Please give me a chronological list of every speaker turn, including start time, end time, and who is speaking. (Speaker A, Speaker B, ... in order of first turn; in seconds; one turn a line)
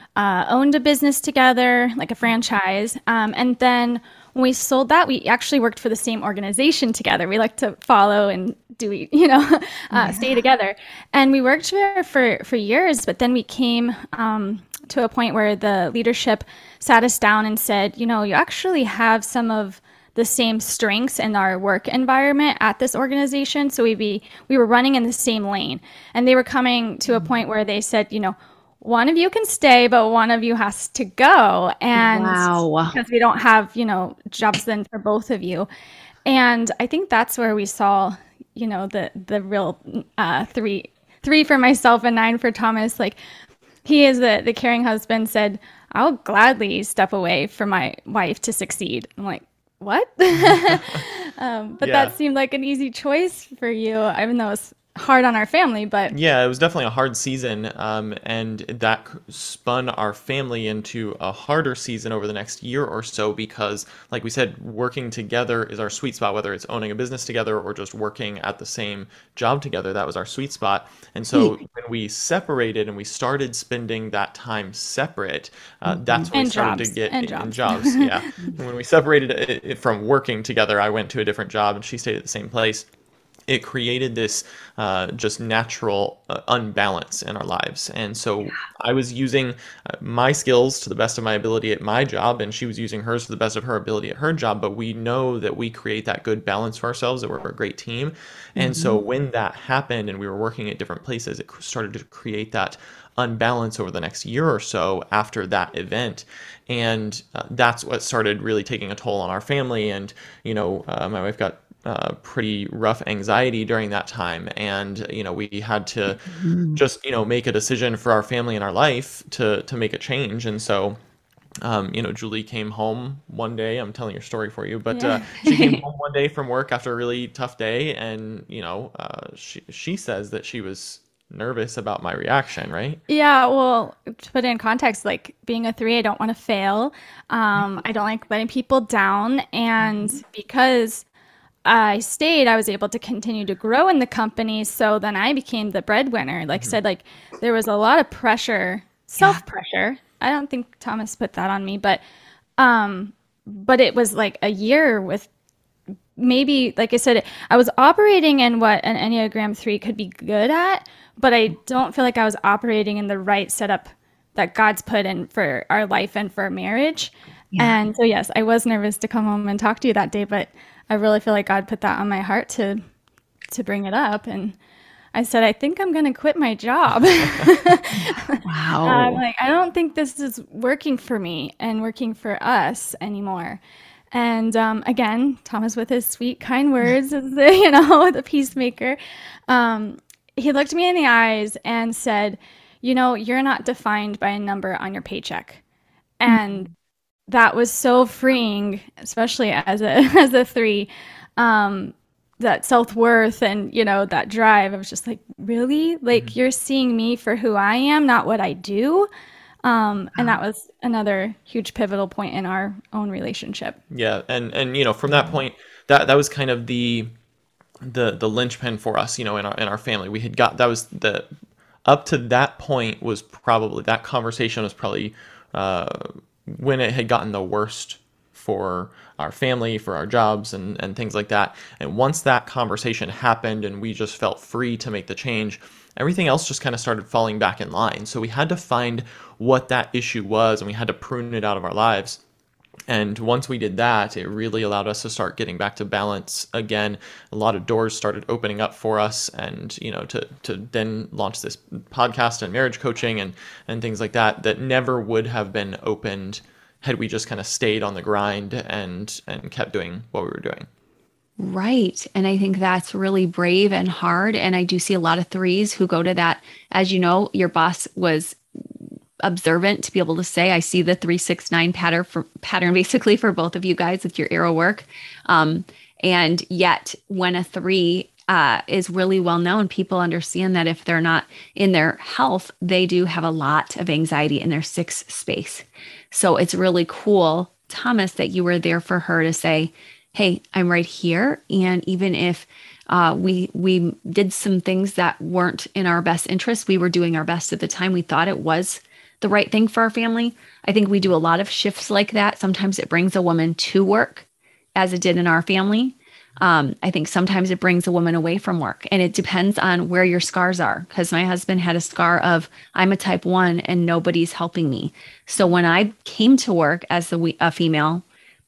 Speaker A: 0.1-35.7
Speaker B: 9.9-10.4
Speaker B: 31.9-32.9
Speaker A: 36.2-43.2
Speaker A: 43.8-56.1
Speaker C: 50.4-51.0
Speaker C: 51.8-52.1
Speaker C: 56.1-82.9
Speaker B: 75.8-76.3
Speaker A: 76.3-78.2
Speaker C: 83.5-116.2
Speaker B: 98.6-99.0
Speaker B: 116.2-116.8
Speaker C: 116.8-121.0
Speaker C: 121.6-133.0
Speaker A: 124.9-125.3
Speaker B: 125.4-125.8
Speaker A: 133.1-141.0
Speaker B: 139.8-140.2
Speaker A: 141.6-152.0
Speaker A: 152.6-155.3
Speaker A: 156.2-172.8
Speaker A: 173.5-174.6
Speaker A: 175.1-183.6
Speaker B: 177.9-179.2
Speaker A: 184.1-189.0
Speaker A: 189.5-195.6
Speaker A: 196.2-196.7
Speaker A: 197.3-209.1
Speaker A: 209.6-213.8
Speaker C: 213.9-217.1
Speaker C: 217.8-221.3
Speaker C: 221.8-242.2
Speaker C: 242.9-260.7
Speaker B: 261.4-268.4
Speaker B: 269.2-318.0